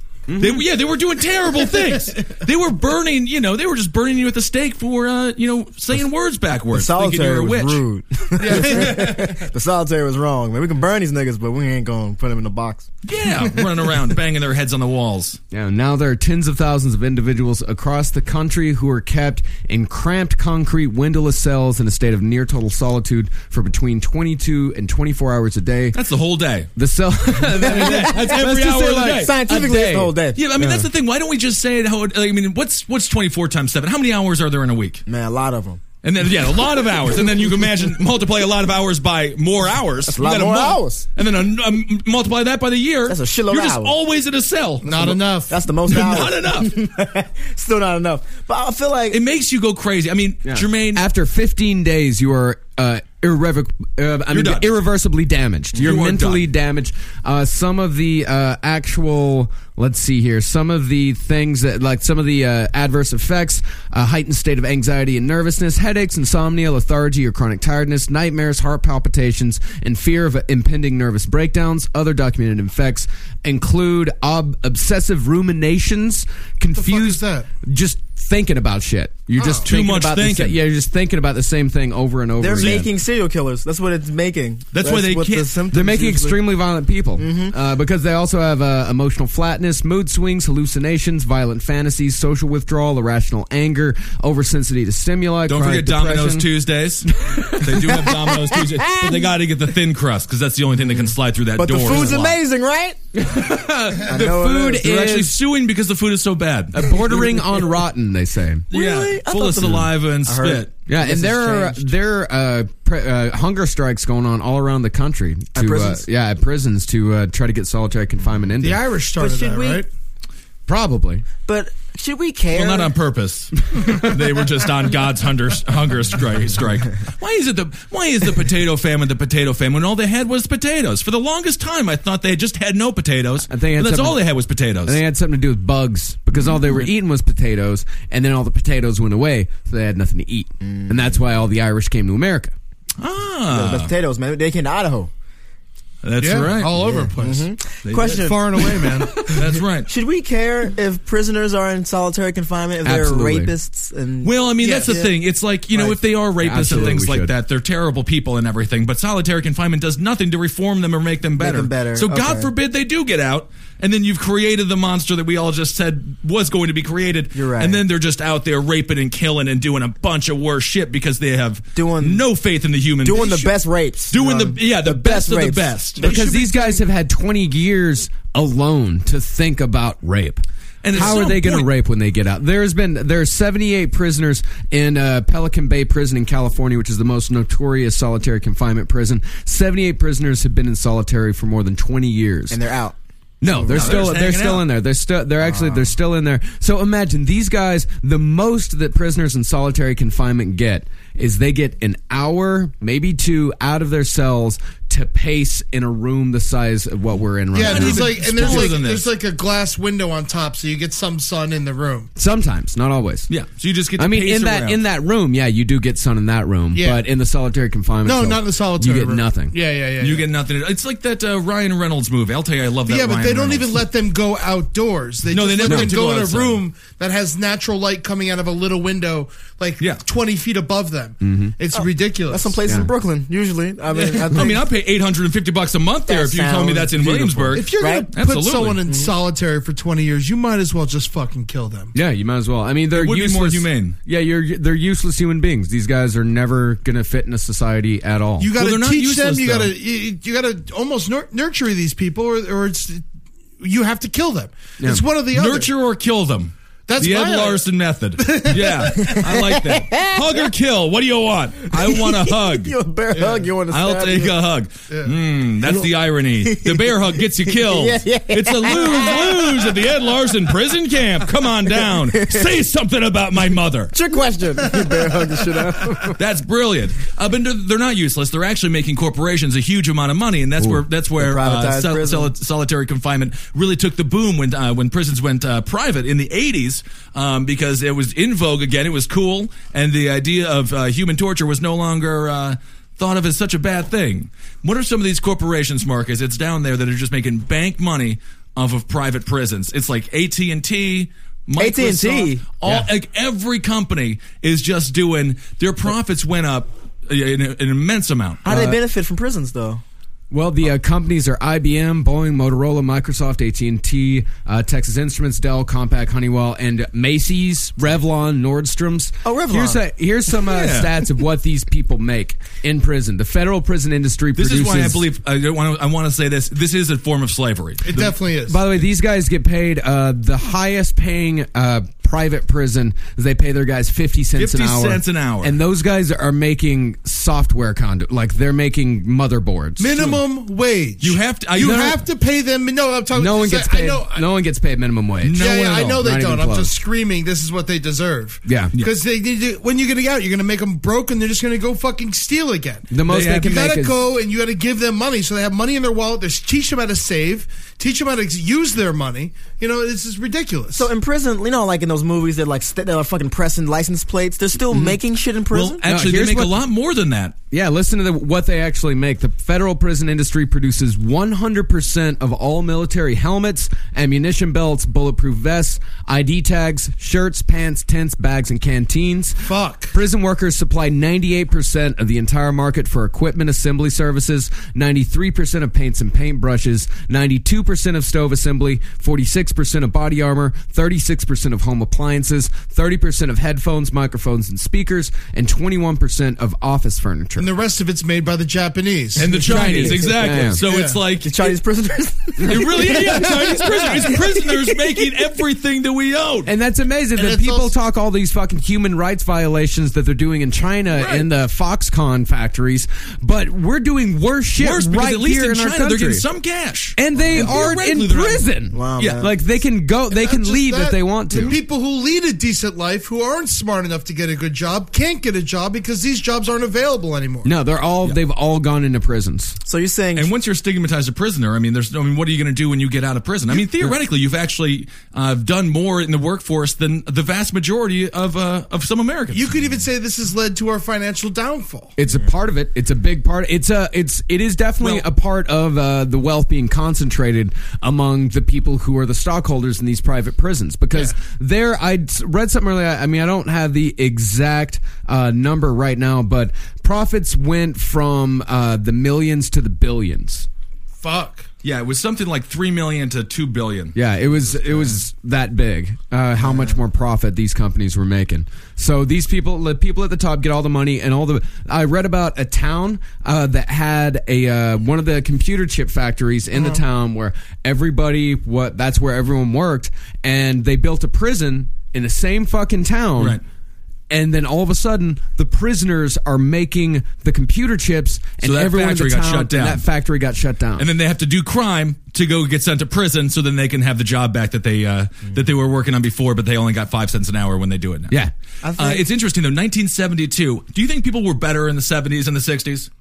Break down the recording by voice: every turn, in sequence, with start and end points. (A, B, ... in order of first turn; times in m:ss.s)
0:00.3-0:00.6 A
0:00.4-0:07.8 B
0:06.7-0:12.9 C
0:08.4-0:09.5 D
0:13.0-0:15.4 B
0:15.5-0:26.0 A
0:25.9-0:26.7 B
0:26.8-0:30.9 A
0:27.6-0:28.4 C
0:27.6-0:29.3 B
0:29.0-0:30.4 C
0:30.4-0:35.0 B
0:35.0-0:35.8 C
0:36.0-0:45.1 B
0:40.0-0:41.0 C
0:43.1-0:44.0 C
0:44.8-0:45.6 D
0:44.9-0:49.2 C
0:45.9-0:46.8 B
0:49.1-0:51.0 B
0:50.4-1:22.9 A
0:54.3-0:54.7 B
0:55.8-0:56.5 B
1:16.7-1:17.5 D
1:19.4-1:19.7 D
1:19.6-1:20.6 B
1:22.4-1:26.4 C
1:22.6-1:22.8 B
1:24.7-1:25.5 B
1:25.7-1:36.5 A
1:27.2-1:27.6 C
1:35.5-1:42.3 B
1:37.3-1:39.3 C
1:40.8-1:43.0 C
1:41.9-1:42.3 A
1:43.2-1:45.3 A
1:44.0-1:45.1 C
1:44.0-1:46.9 B
1:46.7-1:48.7 A
1:47.1-1:47.5 C
1:48.7-1:51.9 C
1:48.7-1:50.7 B
1:50.9-1:58.8 A
1:55.5-1:56.0 C
1:58.6-1:59.9 D
1:59.2-1:59.8 C
2:00.7-2:01.2 A
2:01.4-2:03.0 C
2:02.5-2:15.0 B
2:13.5-2:14.2 A
2:14.9-2:22.5 A
2:20.6-2:21.2 C
2:23.0-2:23.9 B
2:23.5-2:25.1 C
2:26.0-2:27.0 B
2:26.2-2:29.3 D
2:26.8-2:35.1 C
2:27.8-2:28.3 B
2:29.2-2:29.9 B
2:32.8-2:33.5 A
2:34.2-2:53.5 B
2:34.6-2:34.9 D
2:35.7-2:36.0 C
2:36.4-2:37.3 A
2:36.7-2:37.0 C
2:41.4-2:42.5 C
2:47.3-2:47.8 C
2:51.7-2:52.2 C
2:53.0-2:56.8 C
2:54.1-2:56.0 B
2:56.0-3:12.6 A
2:56.0-2:56.6 D
3:00.8-3:01.7 B
3:12.5-3:14.1 C
3:13.4-3:28.7 A
3:13.7-3:14.7 B
3:15.4-3:15.9 C
3:27.5-3:32.1 D
3:27.6-3:29.1 B
3:32.2-3:33.3 A
3:33.3-3:34.8 B
3:34.0-3:39.5 A
3:36.7-3:37.0 D
3:38.0-3:40.2 D
3:40.0-3:43.9 B
3:42.9-3:52.6 D
3:45.3-3:46.6 B
3:45.7-3:45.9 A
3:51.2-3:51.5 A
3:51.7-3:54.7 C
3:53.9-3:58.8 B
3:56.1-3:58.1 C
3:57.2-3:57.5 A
3:57.5-4:01.9 D
3:58.9-3:59.1 C
4:01.9-4:08.5 A
4:02.9-4:04.0 B
4:08.4-4:13.0 D
4:08.6-4:09.7 B
4:13.6-4:15.7 D
4:15.3-4:22.7 B
4:16.9-4:17.6 D
4:18.2-4:18.9 D
4:18.9-4:20.5 C
4:21.7-4:24.4 C
4:23.1-4:23.5 D
4:23.7-4:33.9 B
4:24.9-4:25.1 D
4:25.6-4:29.9 C
4:32.1-4:32.4 C
4:33.9-4:36.2 C
4:36.2-5:08.4 B
4:40.6-4:40.8 A
4:41.2-4:42.3 C
5:01.6-5:02.4 C
5:08.4-5:09.8 C
5:08.5-5:08.7 A
5:10.3-5:25.0 A
5:19.2-5:19.8 C
5:20.4-5:20.9 B
5:24.4-5:28.2 B
5:27.8-5:28.6 D
5:28.5-5:40.2 A
5:34.4-5:35.6 B
5:39.8-5:44.3 D
5:41.0-5:42.0 B
5:43.1-5:46.7 A
5:45.2-5:46.0 B
5:45.3-6:00.9 D
5:48.4-5:48.7 A
5:52.9-5:54.0 A
5:53.1-5:53.5 B
6:00.7-6:05.8 C
6:05.5-6:07.4 B
6:05.9-6:06.6 A
6:07.5-6:37.5 A
6:19.4-6:20.0 D
6:37.4-6:39.3 D
6:39.2-6:41.5 B
6:39.4-6:40.6 A
6:39.5-6:40.5 C
6:40.6-6:41.0 D
6:41.2-6:45.0 C
6:42.4-6:46.5 B
6:46.4-6:56.2 A
6:47.1-6:47.7 D
6:51.0-6:51.2 B
6:54.6-6:58.4 B
6:57.0-7:01.6 A
6:57.1-6:57.6 C
6:58.7-6:59.3 C
6:59.0-6:59.2 B
7:00.1-7:07.5 D
7:07.4-7:09.6 A
7:09.6-7:10.3 C
7:10.1-7:19.4 B
7:19.3-7:21.9 D
7:22.0-7:40.5 A
7:24.8-7:25.0 D
7:41.0-7:41.5 D
7:41.6-7:44.0 B
7:43.9-8:03.4 A
7:46.4-7:46.8 C
8:04.1-8:10.9 A
8:08.4-8:09.8 B
8:10.8-8:18.2 B
8:18.6-8:19.0 C
8:18.7-8:22.9 B